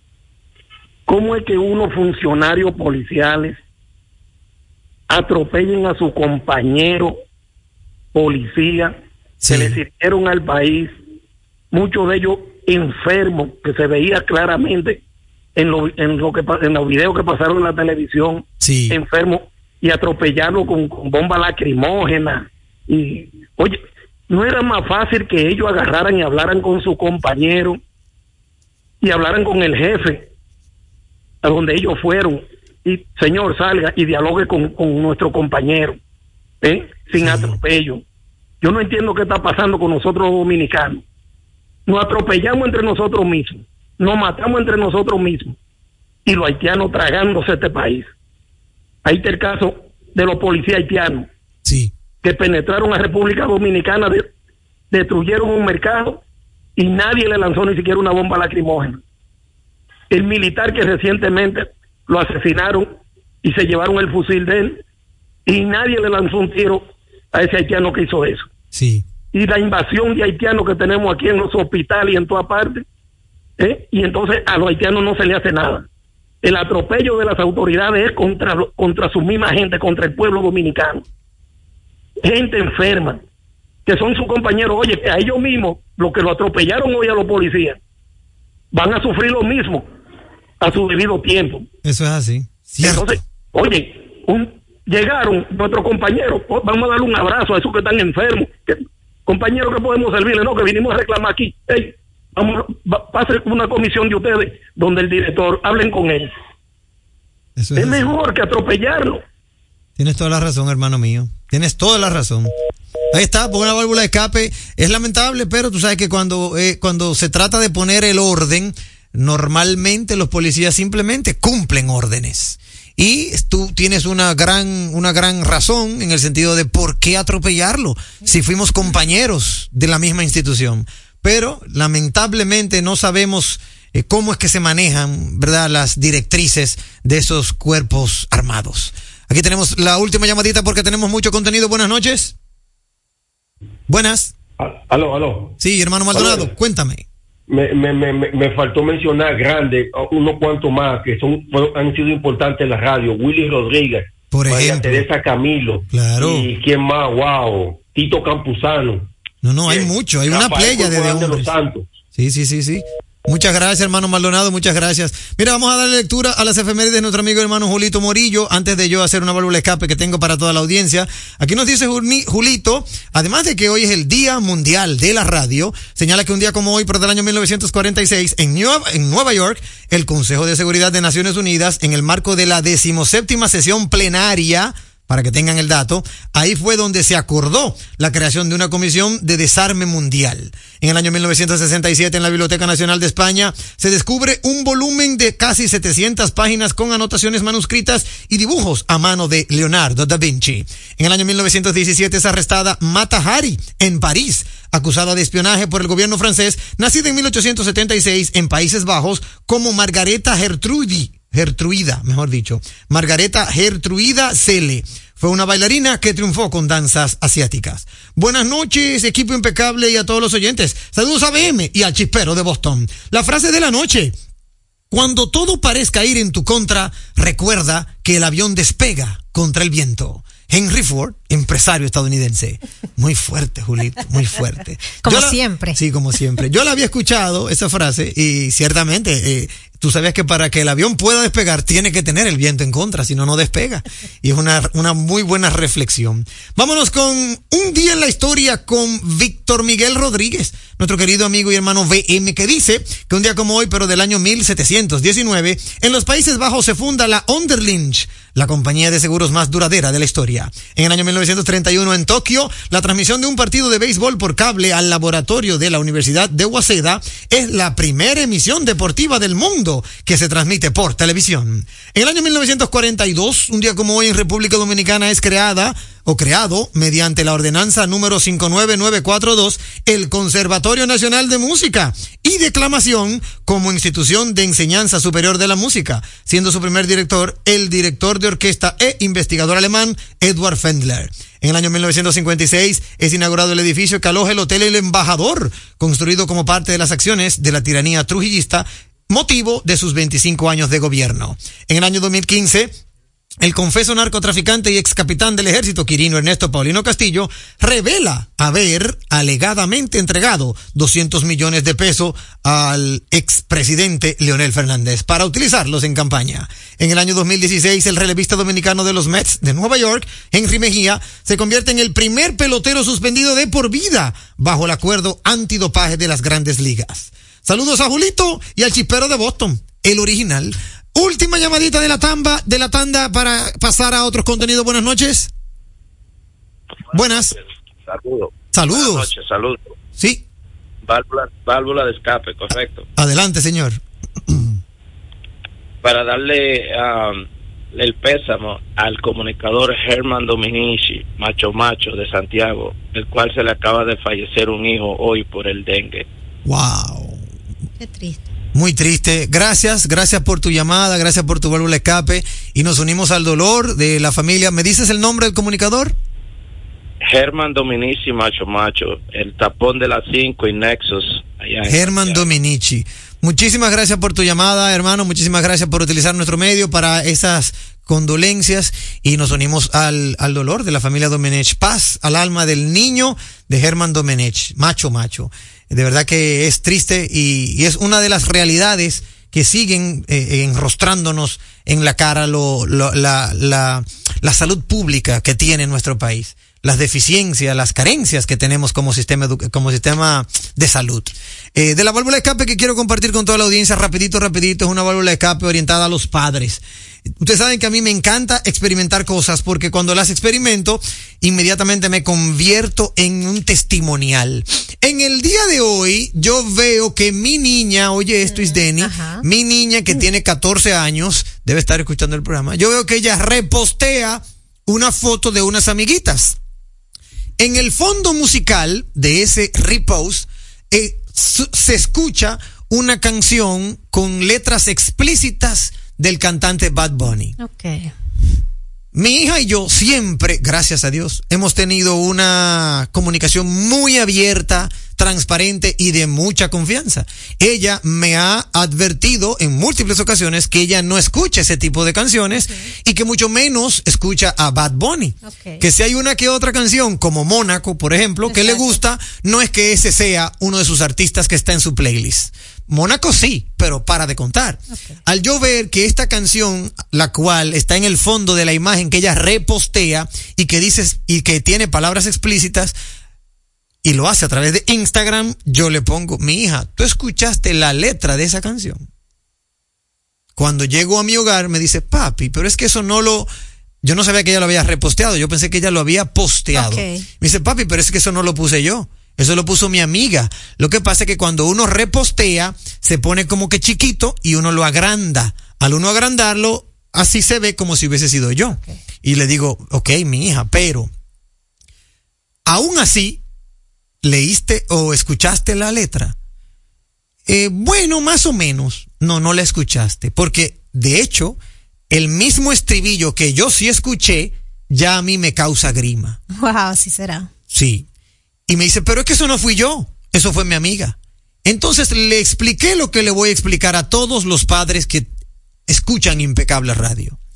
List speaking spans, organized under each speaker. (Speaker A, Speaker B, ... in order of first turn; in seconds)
Speaker A: 1.1-3.6, 5.1-7.2, 8.1-8.9, 9.5-10.9, 11.7-15.0, 15.6-27.8, 29.0-30.2, 31.4-36.0, 36.6-38.0, 38.6-41.0, 41.9-45.5, 46.2-48.1, 49.0-51.3, 52.2-54.3, 54.9-56.2, 56.8-59.0, 60.1-62.9, 63.4-64.8, 65.5-68.5, 69.3-72.8, 73.6-75.8, 76.4-81.0, 82.2-83.2, 83.8-87.8, 88.7-89.8, 90.6-91.6, 92.8-106.3, 107.8-109.2
Speaker B: 9.4-9.8, 18.6-19.0, 37.2-37.6, 51.6-51.9, 68.7-69.0, 91.8-93.1, 107.6-108.1, 110.0-112.5, 113.1-142.3, 143.9-144.3, 145.6-147.0, 154.3-155.0, 155.9-156.5, 159.4-161.5, 162.2-224.2, 224.9-302.8, 303.4-335.3, 336.9-337.3, 338.5-339.1, 340.0-340.2, 343.0-344.5, 356.4-357.2, 358.5-365.9, 371.7-426.4, 427.4-437.3, 438.9-472.7, 473.8-478.9, 480.4-483.3, 483.8-500.9, 502.4-503.2, 504.0-506.1, 507.2-511.4, 511.9-516.2, 517.5-517.9, 518.5-525.1, 525.7-527.2
Speaker C: 144.6-145.5, 146.1-146.5, 147.5-159.1, 159.7-161.9
Speaker D: 235.0-235.8, 357.8-358.2, 418.3-419.2, 437.4-437.9, 455.2-455.6, 458.3-458.8, 464.7-465.0, 486.5-487.1, 516.3-517.3
Speaker E: 336.9-339.8, 340.9-342.9, 345.8-356.0, 367.0-372.2